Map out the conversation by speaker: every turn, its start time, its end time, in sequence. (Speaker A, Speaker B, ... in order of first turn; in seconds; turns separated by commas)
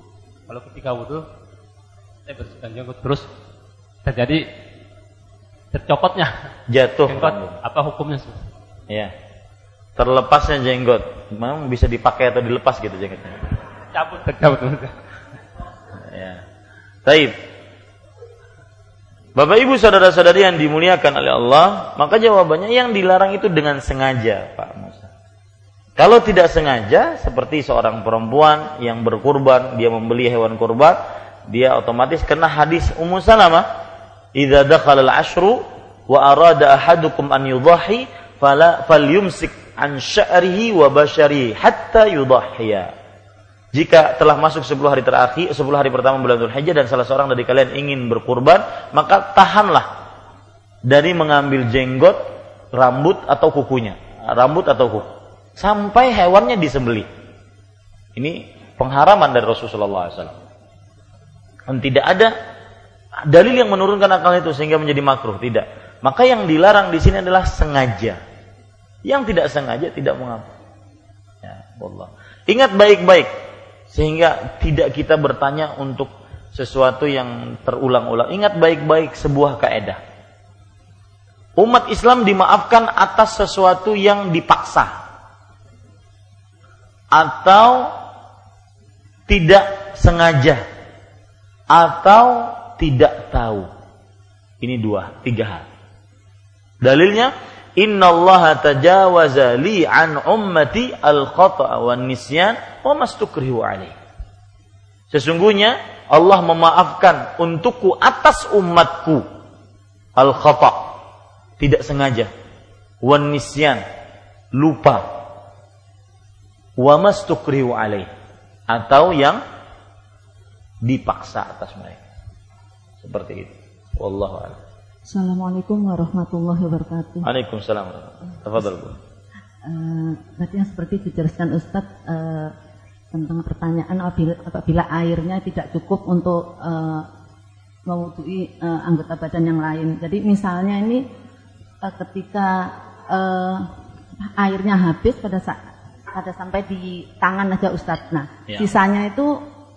Speaker A: 0.5-1.2, Speaker A: 2.3-3.3, Speaker A: 4.0-4.4, Speaker A: 5.7-6.4, Speaker B: 6.7-7.6, Speaker A: 7.1-8.4, Speaker B: 10.0-13.4, Speaker A: 13.9-15.0, Speaker B: 16.0-16.4, Speaker B: 17.1-17.3, Speaker B: 19.4-25.1, Speaker B: 26.0-33.7, Speaker B: 34.4-42.9, Speaker B: 43.7-49.9, Speaker B: 50.9-52.2, Speaker B: 52.7-57.1, Speaker B: 58.2-60.4, Speaker B: 61.7-62.3, Speaker B: 63.3-68.2, Speaker B: 69.0-70.5, Speaker B: 71.4-73.3, Speaker B: 73.9-80.0, Speaker B: 81.6-85.0, Speaker B: 87.1-87.9, Speaker B: 89.3-90.6, Speaker B: 91.7-93.7, Speaker B: 94.6-95.7, Speaker B: 96.8-104.0, Speaker B: 105.1-109.2, Speaker B: 110.2-110.9, Speaker B: 111.6-112.3, Speaker B: 113.0-113.8, Speaker B: 114.5-115.1, Speaker B: 116.8-118.1, Speaker B: 118.7-119.4, Speaker B: 120.8-122.0, Speaker B: 123.0-124.6, Speaker C: 125.1-127.3, Speaker B: 127.2-129.0, Speaker C: 129.6-132.5, Speaker C: 133.1-137.1, Speaker C: 137.9-141.1, Speaker C: 141.8-143.7, Speaker C: 144.2-145.6, Speaker C: 146.1-149.4